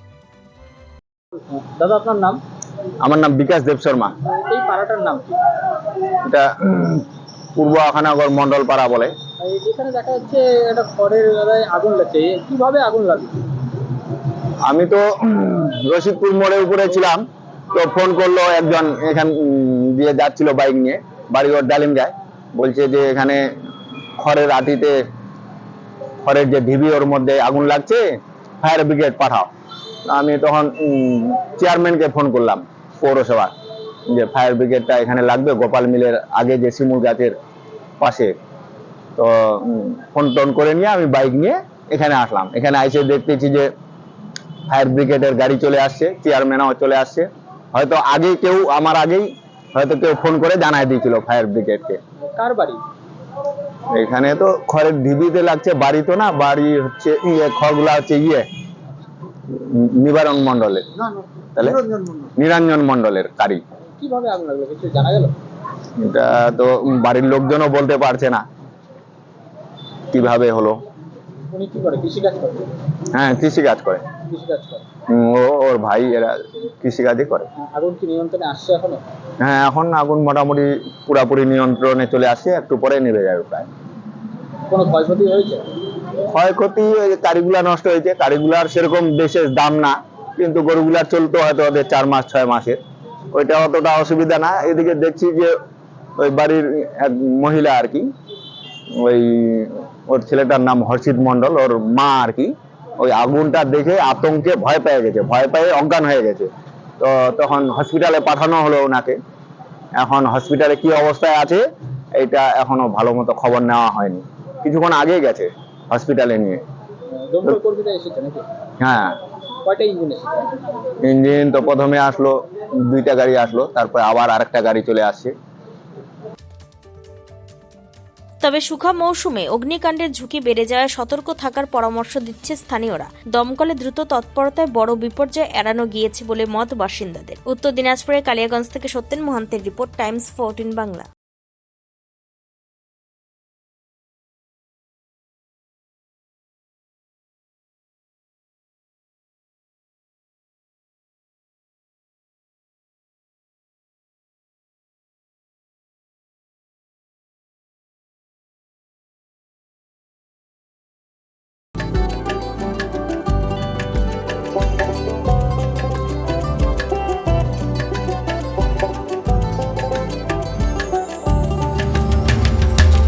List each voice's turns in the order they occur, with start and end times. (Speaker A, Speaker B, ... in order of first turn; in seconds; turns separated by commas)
Speaker A: 1.3-2.4, Speaker B: 3.0-4.1, Speaker A: 4.2-5.3, Speaker B: 6.2-9.1, Speaker A: 9.4-13.4, Speaker B: 14.6-17.2, Speaker B: 17.7-23.4, Speaker B: 24.2-24.9, Speaker B: 26.2-28.0, Speaker B: 28.6-29.5, Speaker B: 30.1-33.5, Speaker B: 34.1-37.3, Speaker B: 38.0-38.4, Speaker B: 39.1-43.7, Speaker B: 44.7-52.0, Speaker A: 52.2-52.8, Speaker B: 53.9-58.4, Speaker B: 59.5-60.9, Speaker B: 61.5-63.6, Speaker A: 64.0-65.3, Speaker B: 66.0-68.4, Speaker B: 70.1-70.8, Speaker A: 71.5-72.7, Speaker B: 73.1-74.0, Speaker A: 74.2-74.8, Speaker B: 75.1-77.5, Speaker A: 77.6-79.0, Speaker B: 79.4-83.7, Speaker A: 84.7-85.7, Speaker B: 86.3-92.8, Speaker B: 93.3-95.5, Speaker B: 96.2-98.1, Speaker B: 99.0-109.2, Speaker B: 110.0-111.6, Speaker B: 112.1-116.6, Speaker A: 117.1-118.4, Speaker B: 118.8-119.2, Speaker A: 119.6-120.5, Speaker B: 121.0-125.3, Speaker C: 128.4-141.1